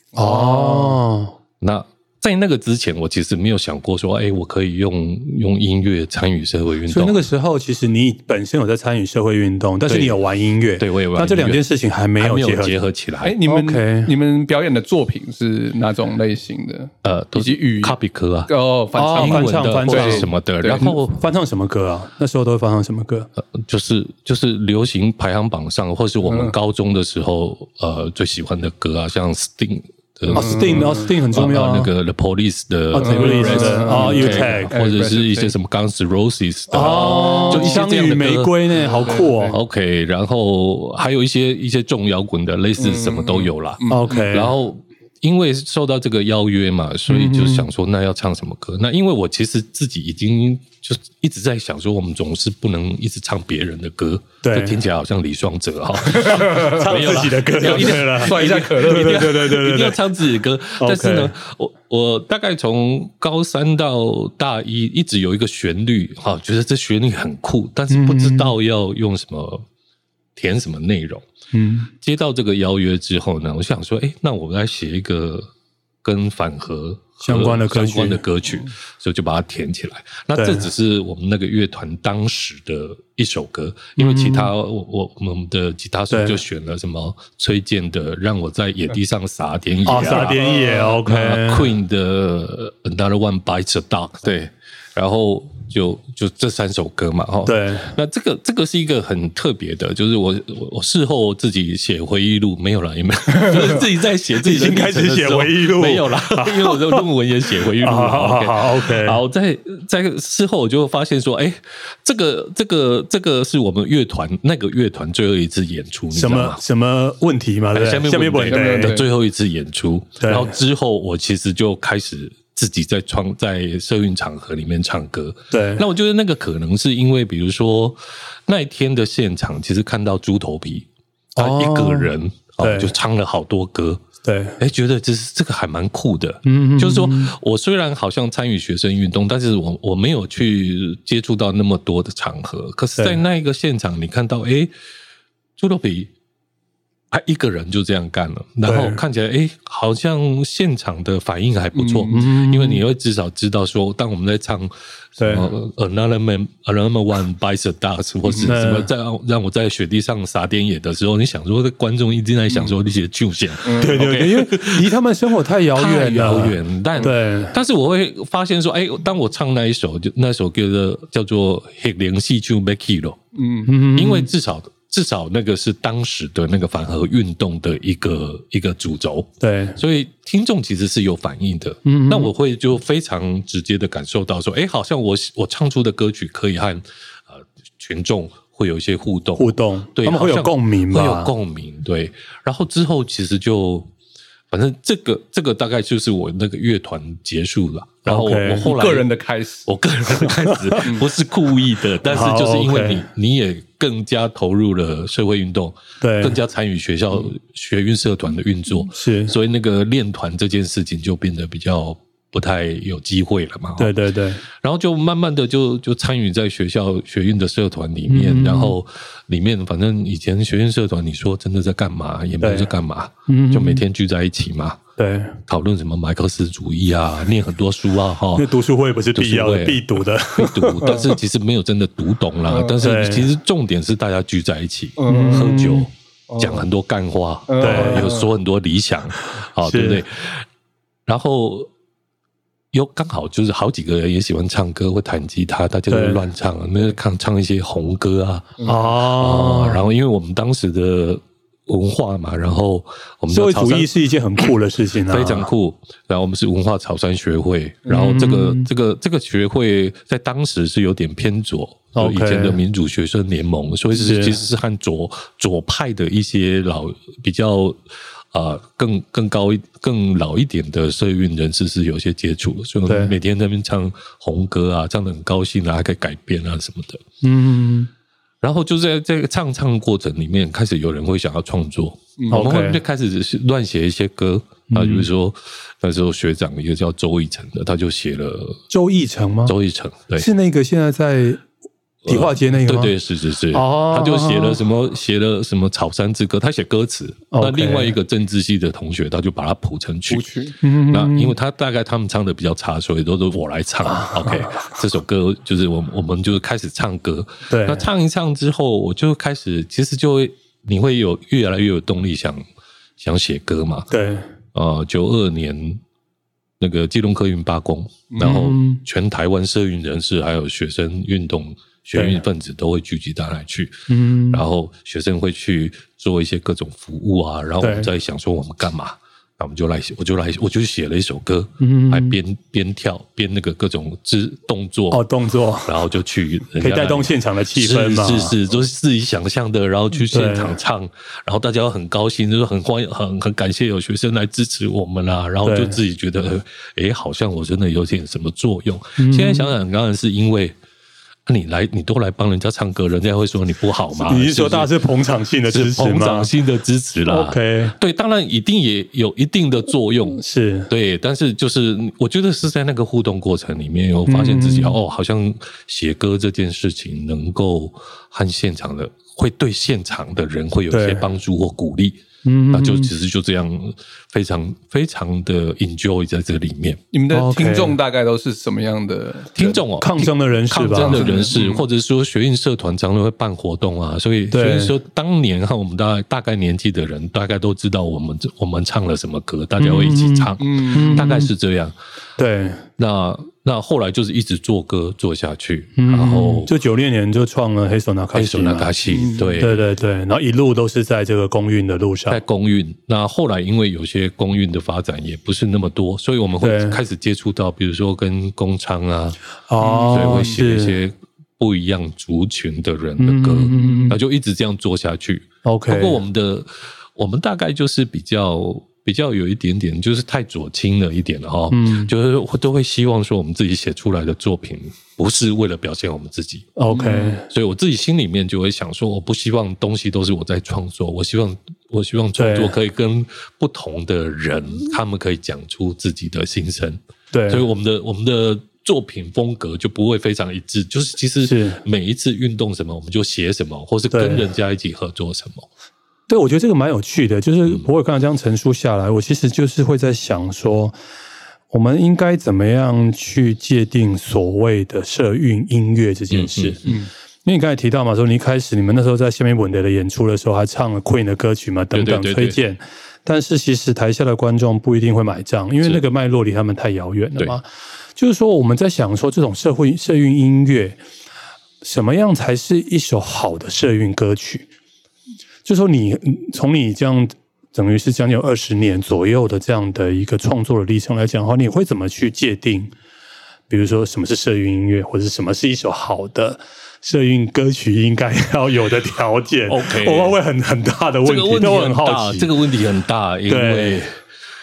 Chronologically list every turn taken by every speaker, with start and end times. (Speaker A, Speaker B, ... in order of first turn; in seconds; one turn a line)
Speaker A: 0.1-1.3
Speaker B: 0.3-1.0
Speaker C: 1.6-7.2
Speaker A: 6.9-12.7
Speaker C: 9.8-10.2
Speaker C: 10.8-11.7
Speaker C: 12.2-13.4
Speaker B: 13.2-18.0
Speaker A: 13.4-14.1
Speaker C: 17.0-18.5
Speaker B: 18.5-21.0
Speaker A: 18.9-23.3
Speaker C: 19.1-21.2
Speaker C: 23.4-38.8
Speaker B: 26.2-26.5
Speaker B: 30.3-31.1
Speaker A: 30.3-31.9
Speaker A: 32.9-34.7
Speaker B: 33.0-35.5
Speaker A: 36.7-39.6
Speaker B: 36.8-37.8
Speaker B: 38.8-39.5
Speaker C: 39.5-69.6
Speaker B: 42.8-44.3
Speaker A: 43.9-44.5
Speaker A: 47.1-47.6
Speaker A: 54.4-54.8
Speaker B: 56.1-56.9
Speaker A: 56.4-60.0
Speaker B: 57.6-59.3
Speaker A: 60.8-61.3
Speaker A: 67.9-68.5
Speaker C: 70.3-71.2
Speaker A: 71.5-71.9
Speaker C: 71.9-75.5
Speaker C: 76.0-116.6
Speaker A: 77.2-78.2
Speaker A: 80.3-80.7
Speaker A: 84.0-84.5
Speaker A: 86.1-86.4
Speaker A: 89.8-91.7
Speaker B: 90.3-90.9
Speaker A: 97.5-97.9
Speaker A: 104.4-107.0
Speaker A: 107.8-109.2
Speaker A: 116.1-119.0
Speaker C: 117.7-134.0
Speaker B: 118.5-119.1
Speaker A: 120.2-120.5
Speaker A: 125.5-125.8
Speaker A: 131.3-132.9
Speaker A: 134.2-134.6
Speaker C: 134.6-144.7
Speaker A: 136.4-137.3
Speaker C: 145.6-146.1
Speaker C: 147.1-164.9
Speaker A: 148.6-149.0
Speaker B: 151.7-152.2
Speaker A: 152.1-152.8
Speaker A: 155.2-155.5
Speaker A: 158.4-158.9
Speaker B: 163.7-164.0
Speaker A: 163.8-167.5
Speaker C: 165.7-173.2
Speaker B: 173.3-173.7
Speaker A: 173.7-174.3
Speaker C: 173.9-193.9
Speaker A: 179.4-179.8
Speaker A: 181.8-182.3
Speaker A: 189.4-191.3
Speaker C: 194.5-199.1
Speaker A: 198.1-198.7
Speaker B: 198.5-199.7
Speaker C: 199.7-213.9
Speaker A: 200.2-200.8
Speaker A: 202.0-203.0
Speaker A: 206.0-206.4
Speaker A: 208.9-209.3
Speaker A: 213.8-214.4
Speaker C: 214.6-224.8
Speaker A: 218.1-218.8
Speaker A: 222.4-222.7
Speaker A: 223.3-223.8
Speaker A: 225.0-225.4
Speaker C: 225.5-228.5
Speaker A: 228.3-231.0
Speaker C: 229.1-240.4
Speaker B: 230.8-231.1
Speaker B: 232.5-232.9
Speaker A: 232.8-233.3
Speaker B: 235.0-236.6
Speaker A: 235.1-235.9
Speaker B: 237.5-238.3
Speaker A: 237.6-238.1
Speaker A: 239.2-240.0
Speaker C: 241.1-241.7
Speaker C: 242.7-253.9
Speaker A: 245.9-246.2
Speaker A: 248.6-249.8
Speaker A: 253.3-255.5
Speaker C: 255.1-267.8
Speaker A: 257.9-258.7
Speaker A: 261.9-262.6
Speaker A: 263.9-264.4
Speaker C: 268.3-277.0
Speaker A: 272.9-273.1
Speaker A: 277.2-277.9
Speaker C: 278.4-288.6
Speaker B: 282.2-282.4
Speaker A: 282.3-282.8
Speaker A: 284.7-285.1
Speaker A: 288.7-289.5
Speaker C: 289.4-290.3
Speaker A: 290.2-291.4
Speaker C: 292.0-300.3
Speaker A: 292.1-292.9
Speaker A: 293.5-294.6
Speaker A: 297.3-298.0
Speaker B: 300.1-300.5
Speaker A: 300.6-301.3
Speaker C: 300.9-312.4
Speaker A: 303.8-304.8
Speaker A: 307.5-307.9
Speaker C: 313.0-313.9
Speaker A: 313.9-314.2
Speaker C: 314.5-315.8
Speaker C: 316.6-323.8
Speaker B: 318.1-318.4
Speaker A: 318.2-318.8
Speaker A: 321.9-322.2
Speaker A: 323.9-324.4
Speaker C: 324.3-335.0
Speaker A: 327.6-327.9
Speaker A: 331.6-332.2
Speaker A: 334.9-335.8
Speaker C: 335.6-350.6
Speaker A: 336.6-338.4
Speaker A: 340.1-340.6
Speaker A: 345.4-345.8
Speaker A: 349.0-349.5
Speaker C: 351.2-354.7
Speaker A: 354.0-356.3
Speaker C: 355.5-372.0
Speaker A: 357.1-357.8
Speaker A: 360.2-360.7
Speaker A: 364.1-364.8
Speaker A: 370.7-371.0
Speaker A: 372.2-372.9
Speaker C: 372.5-376.8
Speaker B: 376.9-379.6
Speaker A: 377.1-377.8
Speaker C: 379.4-391.7
Speaker A: 379.8-381.1
Speaker B: 380.7-381.6
Speaker A: 384.3-384.7
Speaker A: 389.6-391.3
Speaker B: 390.4-391.1
Speaker A: 392.2-392.6
Speaker C: 392.8-396.5
Speaker A: 395.8-398.7
Speaker C: 398.1-399.6
Speaker B: 398.9-399.4
Speaker A: 399.4-402.2
Speaker C: 402.1-409.2
Speaker A: 406.4-406.8
Speaker A: 409.5-410.8
Speaker B: 409.6-410.4
Speaker C: 409.9-426.5
Speaker A: 413.0-414.0
Speaker A: 415.4-416.0
Speaker A: 421.5-421.9
Speaker A: 426.6-427.2
Speaker B: 426.7-427.2
Speaker C: 427.3-445.5
Speaker A: 432.1-432.6
Speaker A: 437.1-437.4
Speaker A: 441.2-441.6
Speaker A: 443.9-444.3
Speaker A: 446.1-450.7
Speaker A: 451.5-470.8
Speaker C: 456.1-456.6
Speaker C: 461.7-462.4
Speaker A: 471.6-474.5
Speaker A: 475.4-482.7
Speaker A: 483.5-492.3
Speaker C: 489.5-490.2
Speaker C: 491.0-493.9
Speaker A: 493.3-493.8